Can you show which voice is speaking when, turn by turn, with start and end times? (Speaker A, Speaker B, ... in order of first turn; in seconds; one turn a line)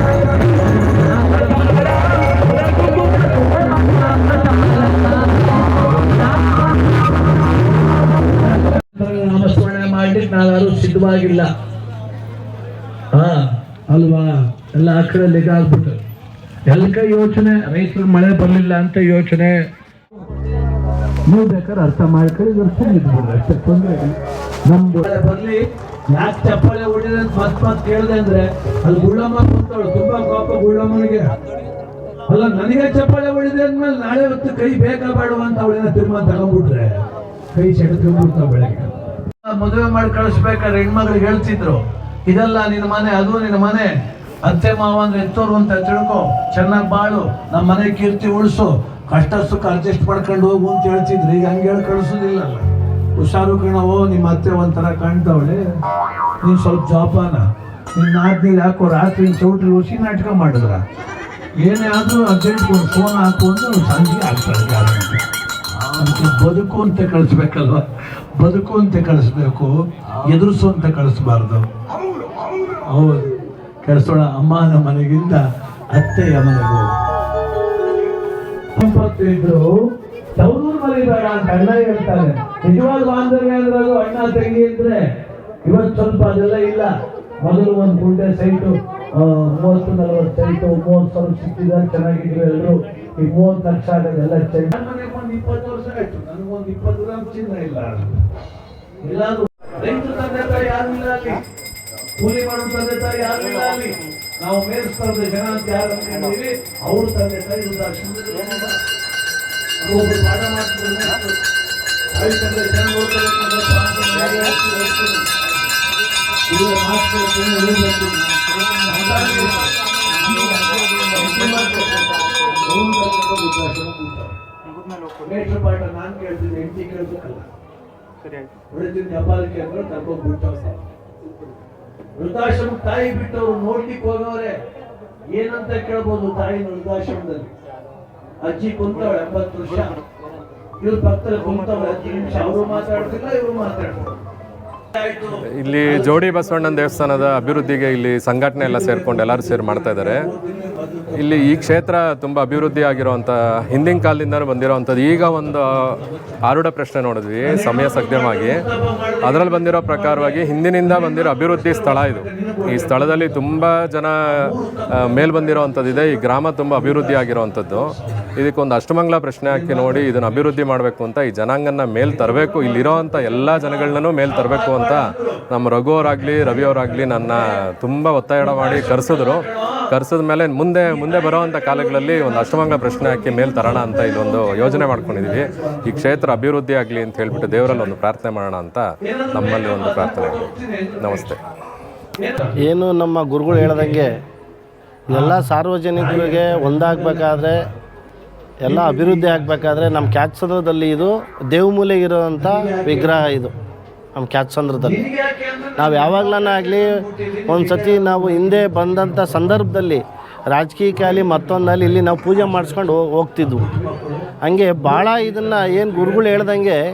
Speaker A: 1.3-1.9
Speaker A: 2.5-5.2
Speaker A: 8.5-11.5
Speaker A: 13.1-16.0
Speaker A: 16.7-19.7
Speaker A: 21.2-31.4
Speaker A: 32.3-37.0
Speaker A: 37.5-55.7
Speaker A: 56.4-60.9
Speaker A: 61.6-65.2
Speaker A: 65.8-71.7
Speaker A: 72.8-77.0
Speaker A: 78.8-79.8
Speaker A: 80.3-85.1
Speaker A: 85.6-98.2
Speaker A: 99.0-101.5
Speaker A: 102.2-108.8
Speaker A: 109.8-111.4
Speaker A: 112.1-115.3
Speaker A: 116.5-124.4
Speaker A: 125.1-127.5
Speaker A: 128.7-130.8
Speaker A: 132.2-134.6
Speaker A: 135.3-137.5
Speaker A: 138.4-140.0
Speaker A: 140.8-144.2
Speaker A: 144.9-145.3
Speaker B: 145.3-150.3
Speaker A: 149.8-151.6
Speaker B: 151.2-158.7
Speaker A: 157.5-163.3
Speaker B: 159.2-191.4
Speaker A: 164.4-166.1
Speaker A: 166.7-167.9
Speaker A: 174.3-175.2
Speaker A: 178.5-179.8
Speaker A: 181.0-186.4
Speaker A: 187.3-187.9
Speaker A: 189.0-191.3
Speaker A: 192.2-192.6
Speaker C: 192.6-194.2
Speaker A: 193.5-194.2
Speaker C: 195.1-197.7
Speaker A: 195.1-195.4
Speaker A: 195.9-197.8
Speaker C: 198.6-203.5
Speaker A: 198.7-200.1
Speaker A: 202.3-203.5
Speaker C: 204.2-205.0
Speaker A: 204.8-209.6
Speaker C: 205.8-213.7
Speaker A: 212.0-212.7
Speaker A: 213.5-214.3
Speaker C: 214.4-216.8
Speaker A: 214.9-216.4